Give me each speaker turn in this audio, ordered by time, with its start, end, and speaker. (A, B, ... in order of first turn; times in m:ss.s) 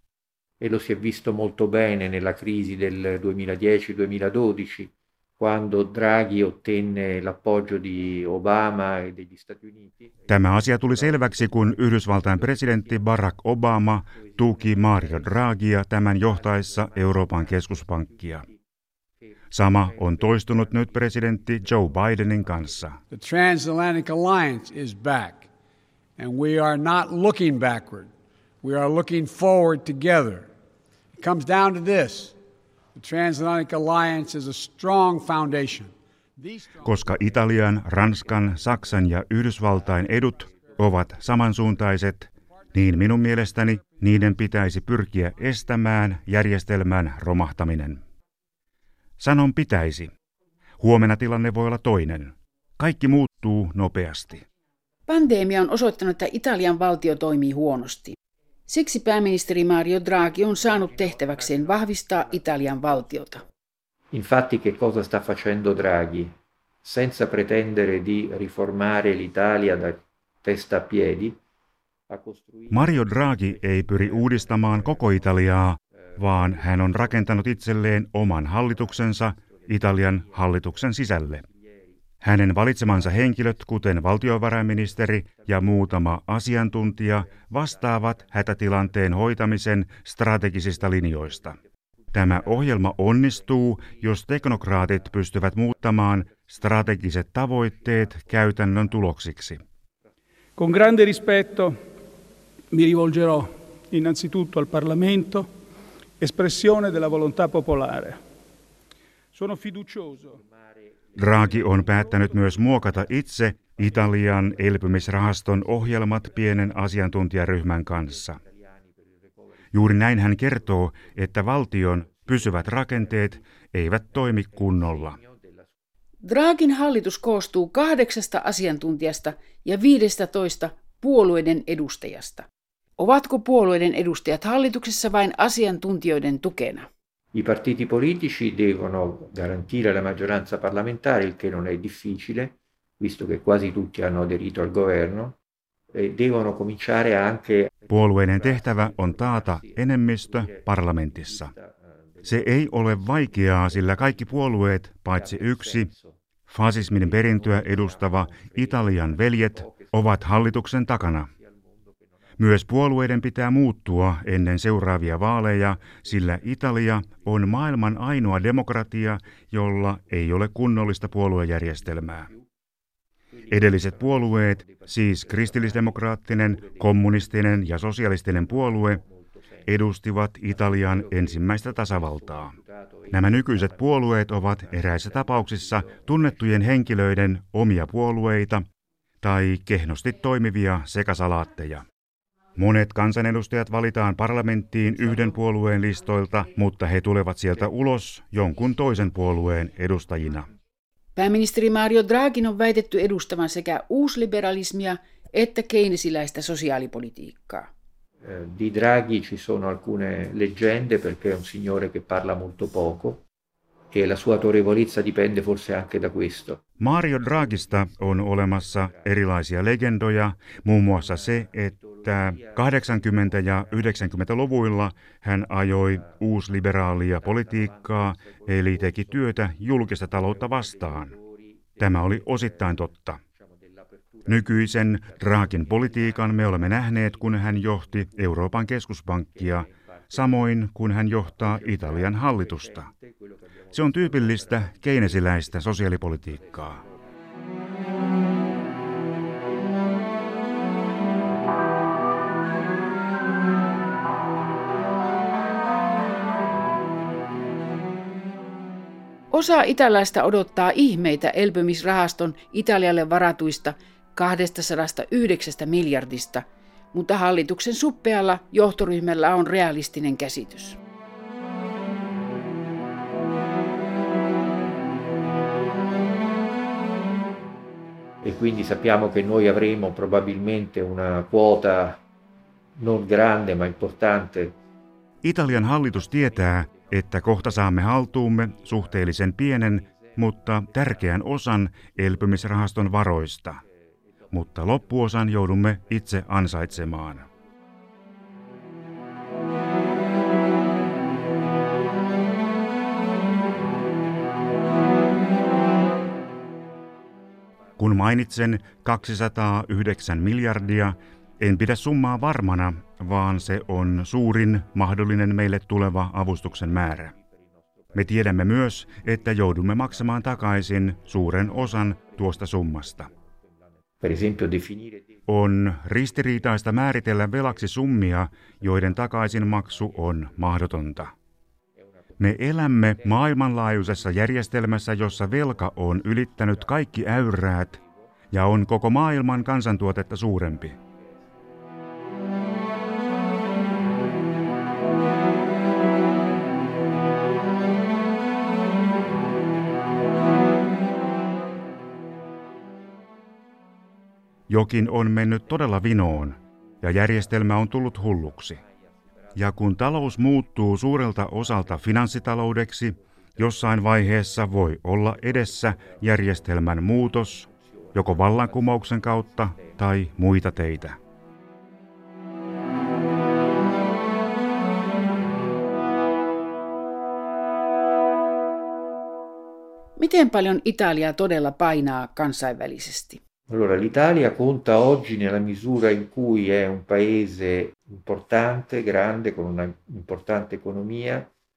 0:00.6-0:09.9 A
0:10.3-0:18.5 B
0:19.5-0:23.0 B
0:23.1-0:25.5 C
0:26.2-0:28.1 C
0:28.6-0:30.5 C
0:31.2-0:32.4 C
0:33.0-0:36.9 C
0:36.8-0:48.0 B
0:49.2-0:50.1 B
0:50.8-0:54.4 B
0:55.1-1:03.4 D
1:04.1-1:11.4 A
1:12.1-1:12.7 A
1:12.7-1:21.5 B
1:22.2-1:31.6 B
1:32.1-1:39.6 B
1:40.6-1:41.8 E
1:42.7-1:45.5 E
1:46.2-1:48.2 E
1:49.3-1:50.4 E
1:51.2-1:58.4 B
1:59.7-2:05.2 B
2:06.2-2:12.5 D
2:13.0-2:16.9 D
2:17.3-2:25.4 A
2:25.9-2:27.8 A
2:27.9-2:31.5 B
2:28.4-2:29.4 A
2:32.2-2:35.9 B
2:36.5-2:41.3 B
2:37.6-2:39.9 A
2:42.4-2:52.3 B
2:53.5-2:59.0 B
2:59.6-3:02.6 B
3:03.1-3:08.6 B
3:09.2-3:11.8 B
3:12.6-3:20.5 B
3:21.2-3:27.7 D
3:28.2-3:33.2 A
3:33.9-3:36.6 A
3:36.8-3:51.2 B
3:51.8-3:53.2 B
3:54.2-4:02.9 B
4:03.7-4:06.8 B
4:19.3-4:30.8 D
4:38.2-4:42.0 A
4:42.8-4:44.6 A
4:45.2-4:53.6 B
4:54.3-4:57.3 B
5:07.8-5:17.1 B
5:18.0-5:23.1 B
5:24.0-5:25.0 A
5:25.3-5:31.1 B
5:32.2-5:37.8 B
5:38.3-5:40.8 B
5:54.5-5:58.6 B
5:59.4-6:11.0 B
6:20.0-6:23.2 D
6:23.5-6:31.3 A